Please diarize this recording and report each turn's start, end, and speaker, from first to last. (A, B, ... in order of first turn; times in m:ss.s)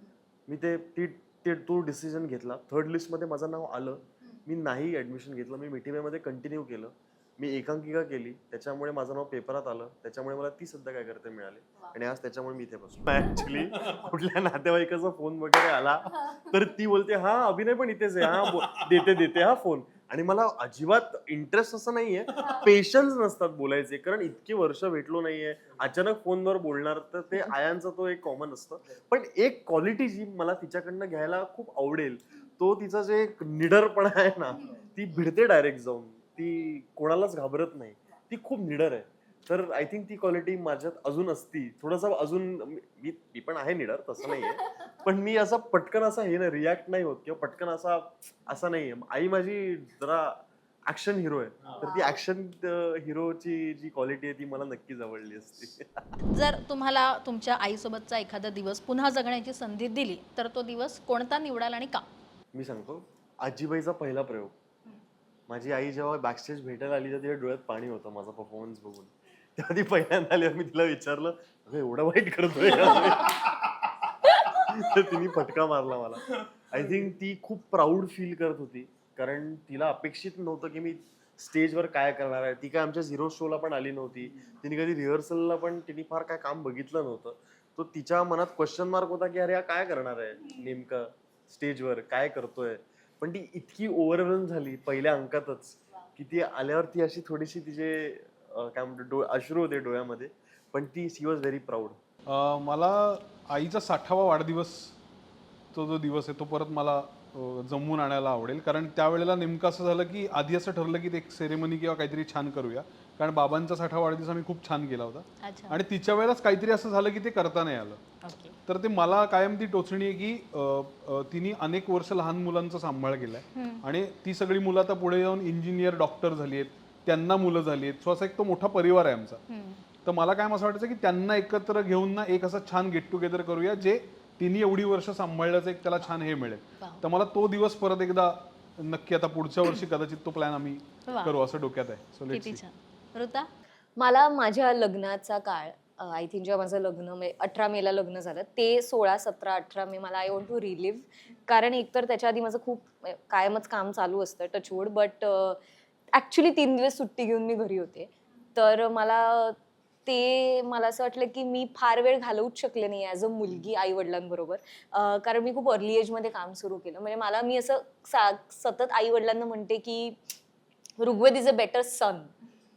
0:00.5-0:56.0 A
0:56.3-1:02.0 B
1:02.5-1:04.6 A
1:05.5-1:42.0 A
1:42.3-1:45.0 C
1:45.7-1:58.0 C
1:55.4-1:55.8 B
1:58.2-1:58.6 B
1:58.7-2:09.4 C
2:03.6-2:03.8 B
2:09.5-2:09.8 B
2:10.0-2:22.6 C
2:21.1-2:21.4 B
2:22.3-2:23.5 B
2:24.0-2:35.6 D
2:36.1-2:50.2 D
2:51.0-2:52.3 D